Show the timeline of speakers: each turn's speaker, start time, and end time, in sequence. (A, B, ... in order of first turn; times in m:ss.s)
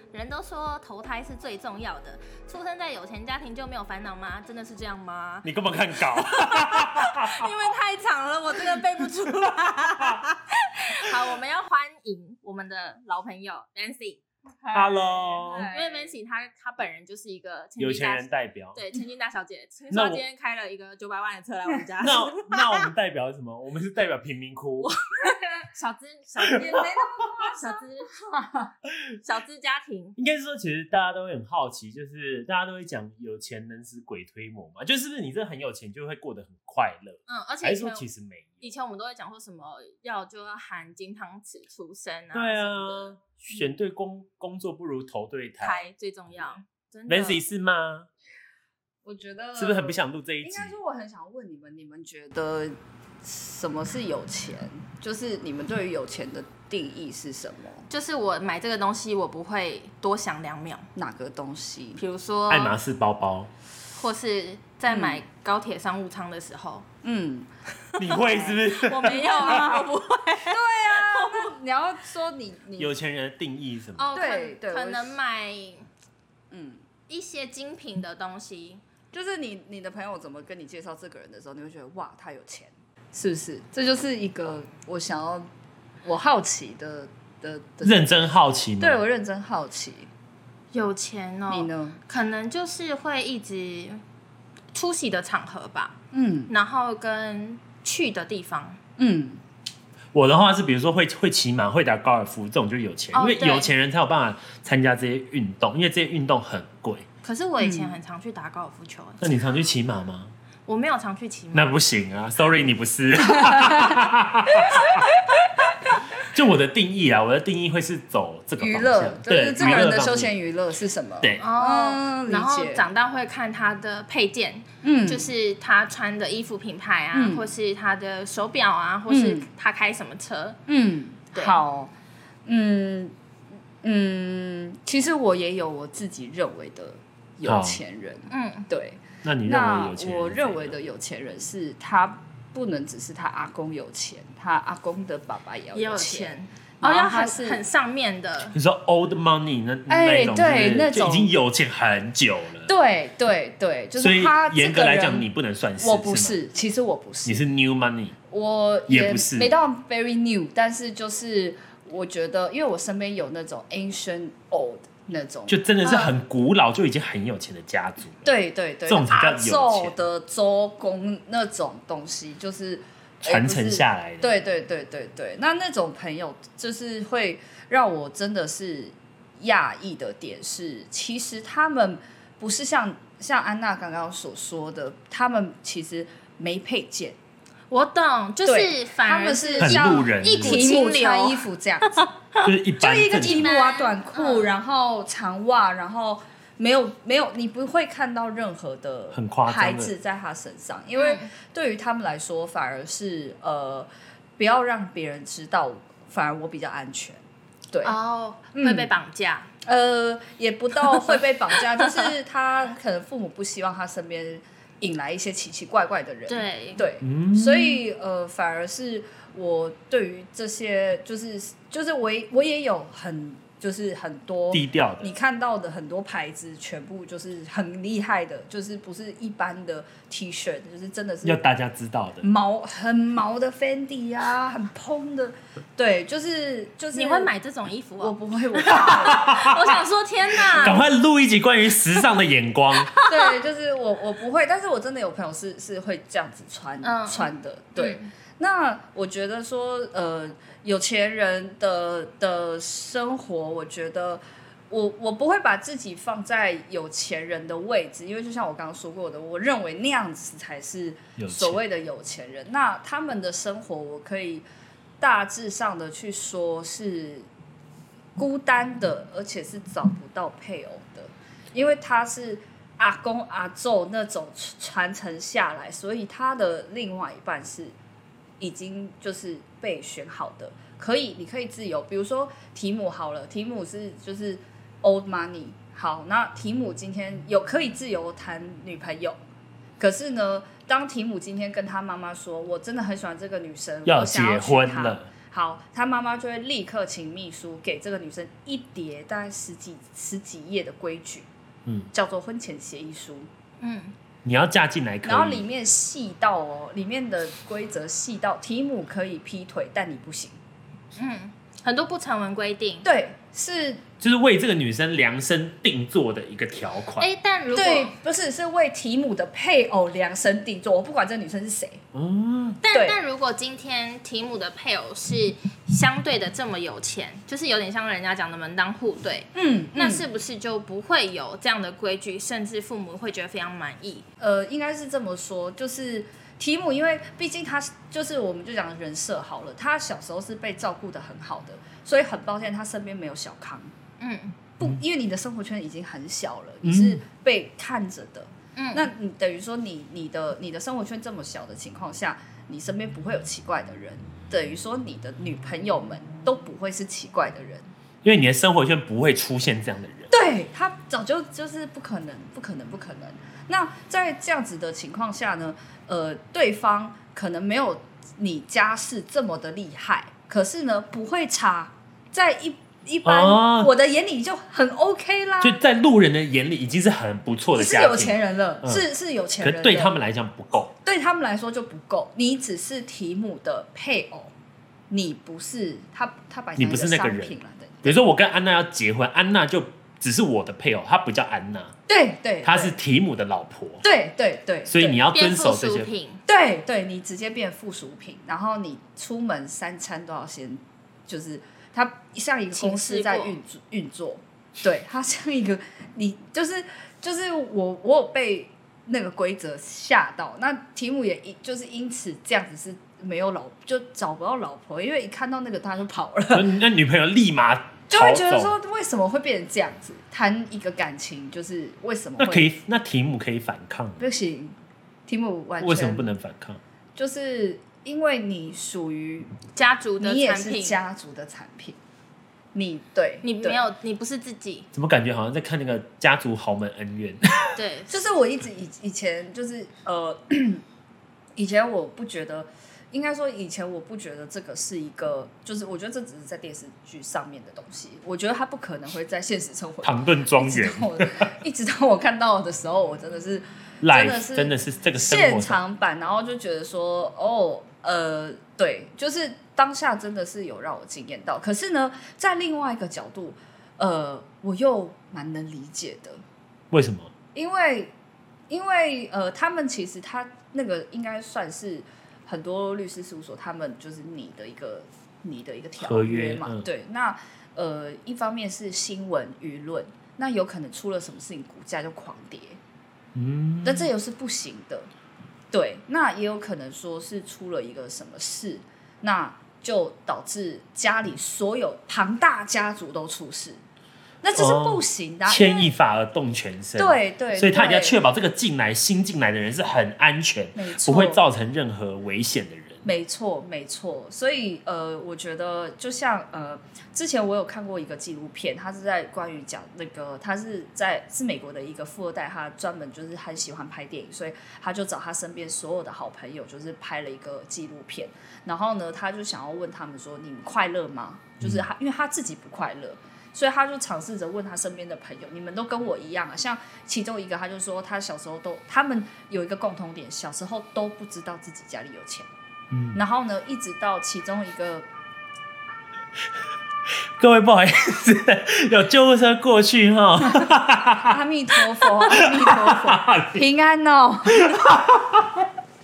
0:00.1-0:05.5 A
0:05.4-0:07.5 B
0:06.0-0:14.2 A
0:14.6-0:16.1 C
0:14.7-0:15.7 B
0:15.5-0:22.9 A
0:17.8-0:18.8 B
0:19.9-0:20.2 B
0:22.0-0:24.9 B
0:24.8-0:28.1 A
0:26.4-0:28.7 C
0:29.2-0:30.2 A
0:30.2-0:38.7 B
0:37.3-0:38.0 A
0:38.6-0:43.1 A
0:42.3-0:45.8 B
0:45.6-0:47.4 A
0:47.1-0:48.1 B
0:49.0-0:57.9 C
0:49.6-0:50.7 B
0:57.9-1:00.9 A
1:01.0-1:02.0 C
1:02.0-1:02.7 A
1:02.5-1:03.5 B
1:04.0-1:06.8 A
1:04.9-1:05.2 C
1:07.0-1:07.5 C
1:08.0-1:09.8 B
1:08.1-1:11.5 A
1:08.1-1:08.5 C
1:09.2-1:09.8 C
1:10.4-1:12.9 C
1:12.8-1:14.1 B
1:14.0-1:15.8 A
1:14.1-1:15.2 C
1:16.5-1:16.8 C
1:17.1-1:18.8 A
1:19.1-1:25.5 C
1:26.0-1:28.3 C
1:27.8-1:29.0 B
1:28.8-1:30.1 C
1:30.7-1:34.0 A
1:31.5-1:32.0 C
1:34.7-1:36.0 A
1:36.1-1:36.5 C
1:36.5-1:38.8 A
1:39.0-1:39.4 C
1:40.1-1:47.1 B
1:43.1-1:43.7 A
1:47.2-1:49.4 A
1:47.6-1:48.0 C
1:49.2-1:50.3 B
1:50.7-1:51.8 A
1:51.5-1:55.1 B
1:53.4-1:54.0 C
1:54.5-1:55.9 C
1:56.2-2:00.3 B
1:58.6-2:02.8 C
2:01.4-2:10.6 A
2:04.8-2:05.3 C
2:07.1-2:07.5 C
2:09.1-2:09.5 C
2:10.7-2:11.9 C
2:12.4-2:13.1 C
2:13.8-2:27.6 C
2:17.4-2:17.8 B
2:18.3-2:18.7 A
2:19.2-2:20.8 B
2:25.7-2:28.5 A
2:28.5-2:32.7 B
2:29.9-2:31.3 C
2:32.6-2:35.3 C
2:34.0-2:36.4 B
2:35.8-2:37.4 C
2:37.2-2:38.1 B
2:38.3-2:46.1 C
2:38.9-2:39.5 B
2:45.5-2:48.3 B
2:48.2-3:07.2 C
2:48.8-2:50.0 B
2:53.2-2:54.3 B
3:07.7-3:11.4 A
3:08.4-3:12.1 C
3:09.6-3:10.7 B
3:12.0-3:12.5 A
3:12.4-3:13.5 B
3:12.8-3:27.9 C
3:13.2-3:14.5 A
3:19.1-3:19.9 B
3:21.0-3:21.3 A
3:27.8-3:29.5 A
3:28.5-3:28.9 C
3:29.6-3:51.4 C
3:36.3-3:36.8 A
3:37.0-3:37.8 B
3:44.5-3:45.1 B
3:51.2-3:52.3 B
3:52.2-3:57.3 C
3:56.9-4:00.8 A
3:58.0-3:59.5 C
3:58.7-3:59.8 B
4:00.4-4:00.7 C
4:00.5-4:02.9 B
4:02.8-4:03.3 A
4:03.1-4:24.4 C
4:06.8-4:08.1 A
4:21.2-4:21.6 B
4:25.0-4:27.3 C
4:28.2-4:37.7 C
4:38.4-4:49.2 C
4:49.8-5:01.3 C
4:53.8-4:55.1 B
5:01.9-5:03.3 C
5:03.6-5:03.9 A
5:04.2-5:05.4 B
5:05.0-5:10.4 C
5:10.9-5:12.8 A
5:12.8-5:13.8 C
5:14.0-5:17.1 B
5:17.0-5:17.9 A
5:17.5-5:21.8 C
5:21.9-5:22.6 B
5:22.6-5:34.0 A
5:22.7-5:23.0 C
5:29.3-5:30.0 C
5:34.2-5:43.7 C
5:44.0-5:44.4 A
5:44.6-5:57.7 C
5:46.6-5:47.0 B
5:48.6-5:48.8 A
5:58.0-6:00.1 B
6:00.1-6:15.6 C
6:13.0-6:13.7 B
6:15.4-6:18.8 B
6:17.5-6:20.0 C
6:19.4-6:20.7 B
6:20.8-6:24.3 C
6:24.9-6:28.0 C
6:26.6-6:31.7 B
6:31.9-6:32.7 C
6:32.4-6:33.8 B
6:33.8-6:35.0 C
6:34.6-6:35.9 B
6:35.1-6:36.2 A
6:36.3-6:56.5 C
6:42.5-6:43.4 A
6:56.3-6:58.5 B
6:57.9-7:02.5 C
7:02.2-7:04.0 B
7:04.0-7:04.5 C
7:05.1-7:06.1 C
7:05.6-7:06.6 B
7:07.0-7:09.3 C
7:09.5-7:10.8 A
7:10.0-7:11.8 C
7:12.5-7:13.6 C
7:13.2-7:14.7 A
7:14.7-7:17.5 B
7:17.5-7:18.0 A
7:17.9-7:20.6 C
7:21.4-7:46.2 C
7:29.8-7:31.3 B
7:33.8-7:35.6 B
7:46.7-7:47.1 B
7:47.3-7:47.9 C
7:48.5-8:02.6 C
7:55.8-7:56.7 B
8:03.1-8:03.9 B
8:03.6-8:04.9 C
8:05.5-8:13.6 C
8:14.2-8:15.7 C
8:14.3-8:22.8 B
8:16.8-8:18.0 C
8:20.5-8:21.2 C
8:22.8-8:52.3 C
8:52.7-8:53.0 B
8:52.9-8:54.9 C
8:57.2-9:01.2 B
9:01.0-9:04.8 C
9:01.8-9:03.4 B
9:04.4-9:05.5 B